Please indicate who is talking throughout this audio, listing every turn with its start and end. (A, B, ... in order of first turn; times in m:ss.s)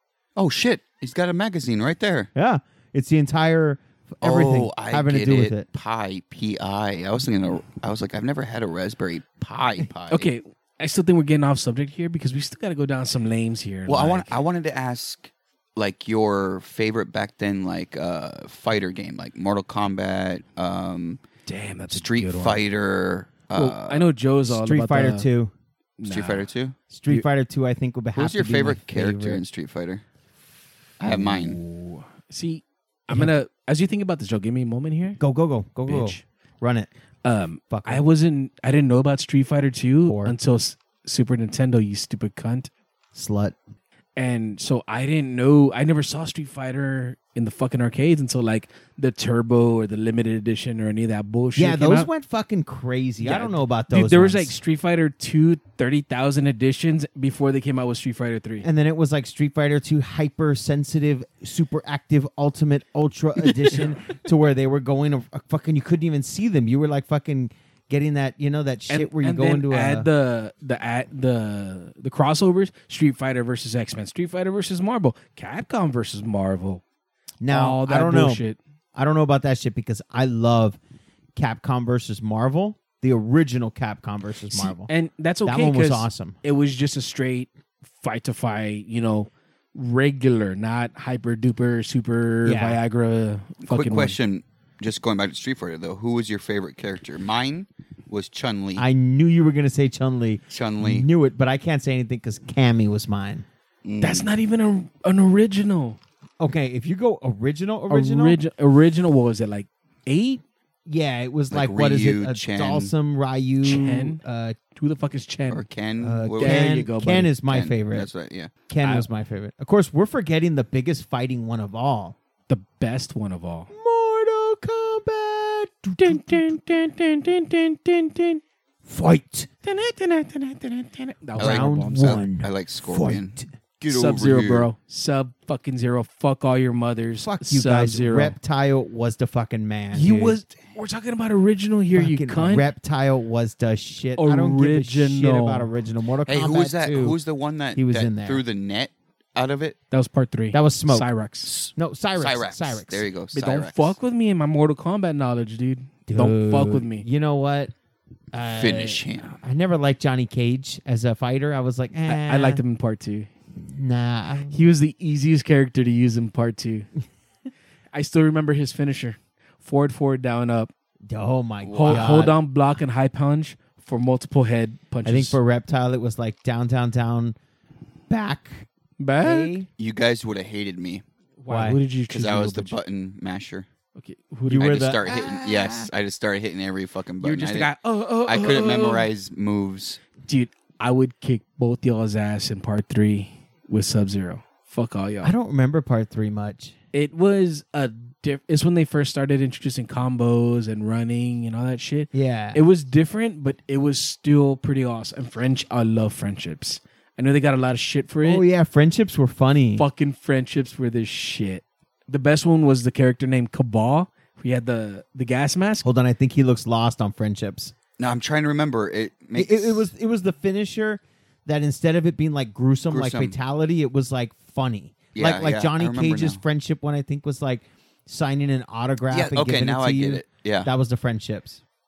0:00.4-0:02.3 A
0:02.3-0:05.7 B
0:04.2-0:10.3 A
0:10.1-0:14.4 C
0:13.9-0:21.2 A
0:21.4-0:22.6 C
0:21.9-0:24.1 A
0:23.5-0:25.3 C
0:24.4-0:25.5 B
0:26.0-0:26.5 C
0:26.1-0:26.8 A
0:26.9-0:29.4 B
0:28.1-0:30.0 A
0:31.0-0:31.6 A
0:31.1-0:35.2 C
0:33.1-0:33.4 B
0:35.2-0:36.9 B
0:35.8-0:36.2 C
0:37.2-0:42.7 C
0:37.7-0:38.0 B
0:40.0-0:40.4 B
0:43.1-0:43.6 B
0:44.2-0:52.1 C
0:51.5-0:54.6 B
0:53.2-0:58.7 C
0:58.6-1:10.1 B
1:03.4-1:03.9 C
1:08.9-1:16.8 C
1:17.4-1:18.4 B
1:17.4-1:18.6 C
1:18.9-1:20.8 B
1:21.4-1:24.9 B
1:24.5-1:34.2 C
1:25.4-1:26.4 B
1:32.4-1:32.8 B
1:33.6-1:38.8 A
1:38.8-1:43.4 B
1:40.5-1:41.1 A
1:43.8-1:44.3 A
1:44.0-1:46.0 C
1:46.4-1:48.4 B
1:47.9-1:50.4 C
1:50.9-1:54.6 B
1:51.5-1:52.9 A
1:53.6-1:55.6 C
1:55.5-1:56.9 A
1:56.0-1:58.1 B
1:56.4-1:57.4 C
1:57.5-1:58.5 A
1:58.6-2:02.2 B
1:58.8-1:59.1 C
2:02.5-2:03.7 C
2:03.7-2:06.6 B
2:06.0-2:08.4 C
2:08.8-2:09.5 B
2:09.6-2:12.3 C
2:11.4-2:13.5 B
2:11.4-2:14.7 A
2:13.8-2:18.4 C
2:17.2-2:20.4 B
2:19.9-2:22.7 C
2:21.9-2:27.2 B
2:24.1-2:25.8 C
2:26.2-2:29.8 A
2:27.7-2:28.4 B
2:29.9-2:31.6 C
2:30.5-2:31.1 B
2:31.4-2:34.0 A
2:31.7-2:33.1 B
2:33.3-2:37.1 C
2:36.1-2:37.7 B
2:38.3-2:42.6 B
2:38.5-2:39.4 A
2:42.0-2:43.3 C
2:43.6-2:44.6 B
2:44.4-2:46.9 C
2:47.9-2:50.7 C
2:51.1-2:52.4 B
2:51.6-2:52.3 A
2:51.7-2:55.4 C
2:55.0-2:57.4 B
2:58.1-2:58.7 B
2:59.0-2:59.6 C
2:59.2-2:59.7 B
2:59.8-3:01.0 A
3:01.4-3:02.8 C
3:01.5-3:01.8 B
3:02.1-3:03.6 A
3:03.9-3:04.7 C
3:04.5-3:07.7 A
3:04.5-3:05.9 B
3:07.2-3:09.1 C
3:08.2-3:10.0 A
3:10.3-3:15.3 C
3:15.2-3:16.7 B
3:16.9-3:28.5 C
3:22.1-3:22.6 B
3:28.2-3:29.8 B
3:29.7-3:35.9 C
3:35.8-3:37.7 B
3:38.0-3:39.9 A
3:39.3-3:51.6 B
3:42.9-3:43.4 A
3:45.1-3:46.4 A
3:49.1-3:50.7 A